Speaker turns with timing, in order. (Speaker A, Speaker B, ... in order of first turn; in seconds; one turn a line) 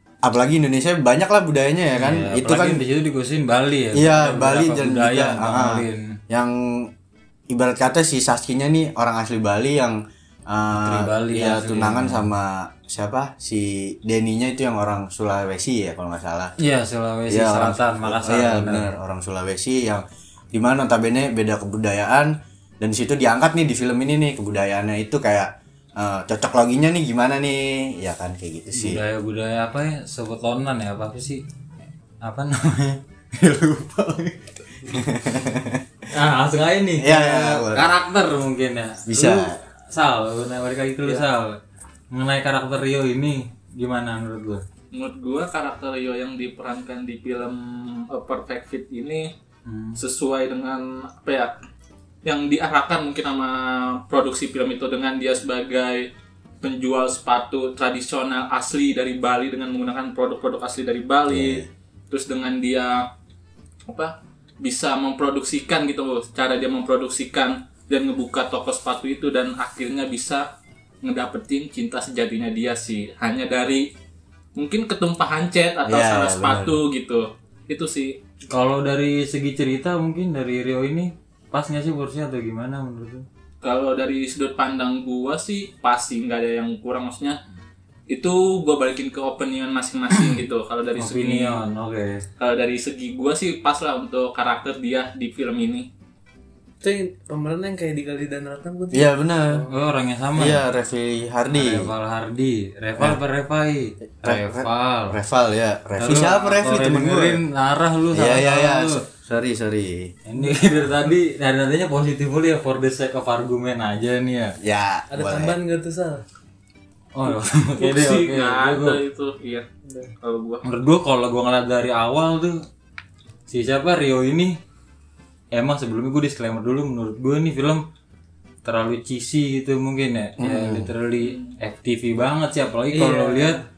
Speaker A: 0.2-2.8
Speaker B: 1.9-6.2
Speaker A: 3.9-6.9
Speaker A: 7.5-16.5
Speaker B: 10.7-12.3
Speaker B: 16.6-18.9
Speaker A: 17.3-29.0
Speaker B: 28.8-31.4
Speaker B: 32.2-34.9
Speaker A: 34.9-35.8
Speaker B: 36.1-41.6
Speaker A: 37.0-37.9
Speaker A: 39.1-39.6
Speaker B: 42.1-44.6
Speaker C: 44.9-49.3
Speaker B: 49.6-50.0
Speaker C: 50.0-51.5
Speaker C: 52.2-56.1
Speaker C: 56.6-63.1
Speaker A: 61.3-61.7
Speaker C: 63.9-70.5
Speaker C: 71.0-73.9
Speaker C: 74.5-78.2
Speaker A: 75.8-76.8
Speaker B: 78.5-83.3
Speaker C: 83.6-87.4
Speaker C: 88.1-91.6
Speaker B: 91.0-92.2
Speaker C: 92.4-95.9
Speaker D: 96.8-99.7
Speaker A: 98.9-99.6
Speaker B: 99.7-100.6
Speaker A: 100.4-101.9
Speaker B: 101.5-105.2
Speaker A: 104.2-107.4
Speaker B: 106.0-109.0
Speaker A: 108.1-110.1
Speaker B: 110.2-114.5
Speaker A: 114.6-115.6
Speaker D: 115.1-116.2
Speaker B: 117.1-119.0
Speaker C: 117.8-119.7
Speaker C: 120.2-120.6
Speaker B: 120.6-122.6
Speaker B: 123.5-124.6
Speaker B: 125.5-127.8
Speaker B: 128.6-133.6
Speaker A: 130.4-130.9
Speaker C: 131.2-131.5
Speaker D: 132.9-133.6